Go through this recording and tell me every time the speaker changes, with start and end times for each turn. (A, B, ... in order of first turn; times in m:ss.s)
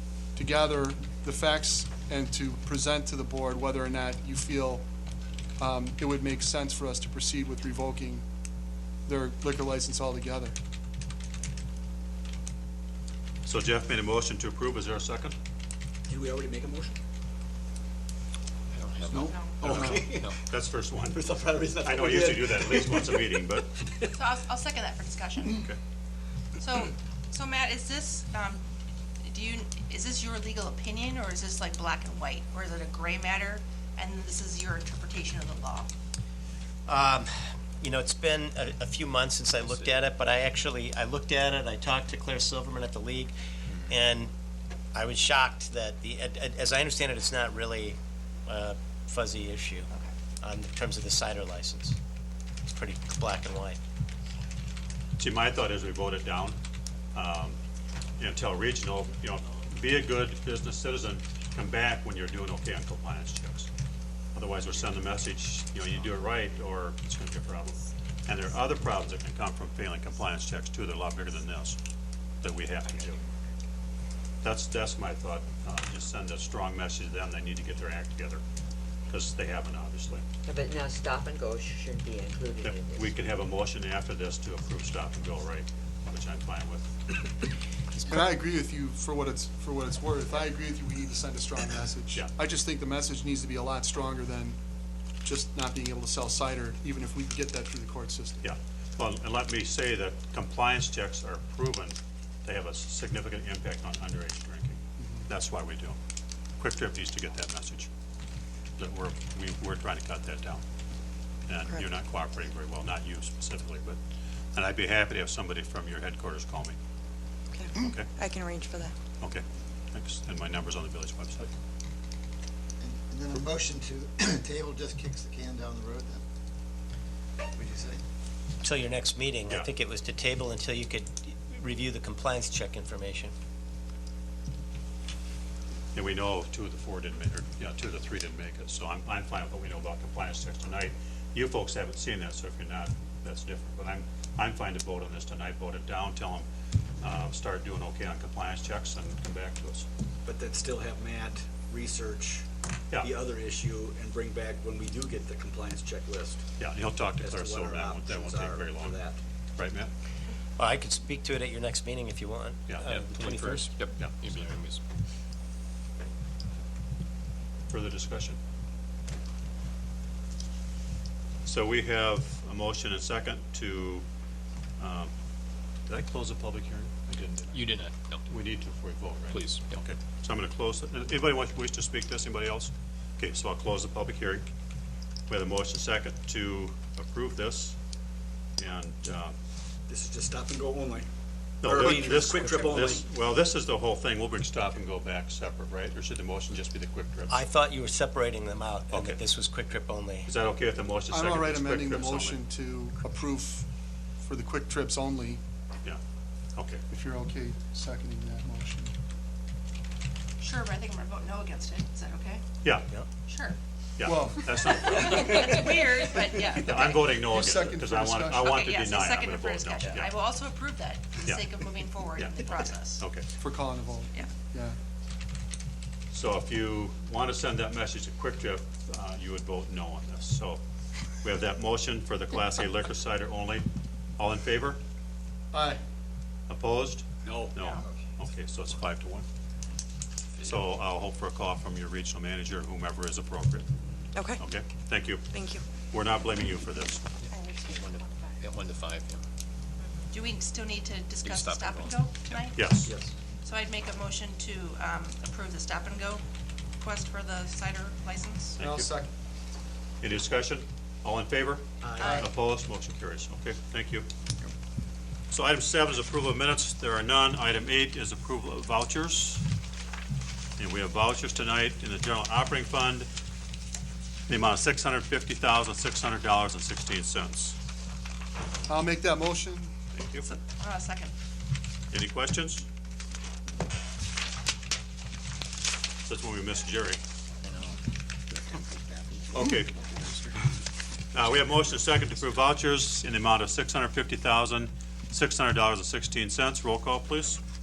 0:00.4-0:04.8 A
0:05.6-0:08.2 A
0:09.0-0:10.6 A
0:13.4-0:15.3 B
0:16.1-0:17.0 C
0:18.7-0:20.4 D
0:19.0-0:20.4 C
0:19.2-0:19.7 E
0:19.6-0:21.2 B
0:21.0-0:24.1 C
0:21.8-0:23.8 B
0:24.2-0:25.6 E
0:26.6-0:28.6 E
0:29.2-0:35.9 E
0:36.8-0:43.3 F
0:39.6-0:40.0 D
0:43.9-0:44.3 F
0:44.9-0:49.9 F
0:50.4-0:52.0 F
0:52.7-0:53.8 F
0:55.2-0:56.6 B
0:57.1-0:57.6 B
0:58.2-1:03.7 B
1:04.3-1:11.8 B
1:12.4-1:13.2 B
1:14.4-1:18.4 B
1:19.1-1:20.2 B
1:20.5-1:23.1 G
1:22.6-1:26.9 B
1:28.0-1:34.6 A
1:35.2-1:38.5 A
1:38.4-1:46.0 B
1:45.0-1:45.3 A
1:46.6-1:47.9 B
1:48.8-1:50.6 B
1:51.5-1:54.0 B
1:51.6-1:51.9 H
1:54.5-1:56.8 B
1:57.5-1:58.9 H
1:57.8-1:58.1 B
1:59.2-2:01.5 B
2:02.8-2:06.2 I
2:07.5-2:08.0 I
2:08.6-2:13.3 F
2:15.9-2:26.4 B
2:27.0-2:29.8 B
2:30.2-2:36.4 C
2:36.6-2:39.0 B
2:37.2-2:39.2 C
2:39.6-2:39.9 B
2:40.6-2:43.7 F
2:42.7-2:43.0 B
2:42.9-2:44.8 D
2:44.0-2:44.3 B
2:47.7-2:48.4 B
2:51.4-2:54.0 B
2:54.8-2:55.1 B
2:55.9-3:04.5 B
2:57.5-2:58.3 D
2:59.3-2:59.8 D
3:05.3-3:07.8 B
3:08.6-3:09.3 B
3:09.9-3:11.1 C
3:11.6-3:17.4 B
3:11.6-3:13.0 C
3:17.3-3:20.3 F
3:18.9-3:19.2 B
3:20.2-3:22.4 B
3:21.1-3:23.6 A
3:24.2-3:25.4 A
3:26.5-3:26.8 B
3:26.9-3:28.9 A
3:30.4-3:32.6 E
3:32.6-3:32.9 B
3:33.3-3:33.6 E
3:34.0-3:35.7 B
3:34.0-3:34.6 A
3:34.9-3:37.2 E
3:36.5-3:40.2 B
3:37.2-3:38.6 A
3:38.4-3:43.1 E
3:41.2-3:43.3 B
3:43.4-3:44.8 A
3:46.1-3:50.6 B
3:51.2-3:54.8 B
3:55.5-3:55.8 A
3:56.5-3:59.3 B
3:57.2-3:57.7 C
4:00.4-4:03.7 B
4:04.1-4:04.4 H
4:04.4-4:05.3 B
4:05.3-4:05.6 H
4:05.9-4:07.0 B
4:07.3-4:07.8 H
4:07.7-4:09.2 D
4:10.0-4:12.6 E
4:11.2-4:12.8 D
4:12.5-4:12.9 B
4:12.8-4:13.1 C
4:13.4-4:16.2 E
4:16.8-4:18.6 E
4:18.6-4:18.9 B
4:18.6-4:19.1 A
4:20.0-4:24.1 B
4:21.8-4:22.2 C
4:22.0-4:22.3 E
4:25.3-4:29.4 B
4:30.6-4:33.1 B
4:34.3-4:37.6 B
4:38.7-4:39.7 A
4:39.9-4:40.3 B
4:40.2-4:41.1 E
4:41.9-4:42.6 B
4:46.0-4:47.0 B
4:47.4-4:47.8 D
4:48.5-4:50.5 D
4:49.3-4:49.7 B
4:51.1-4:57.4 B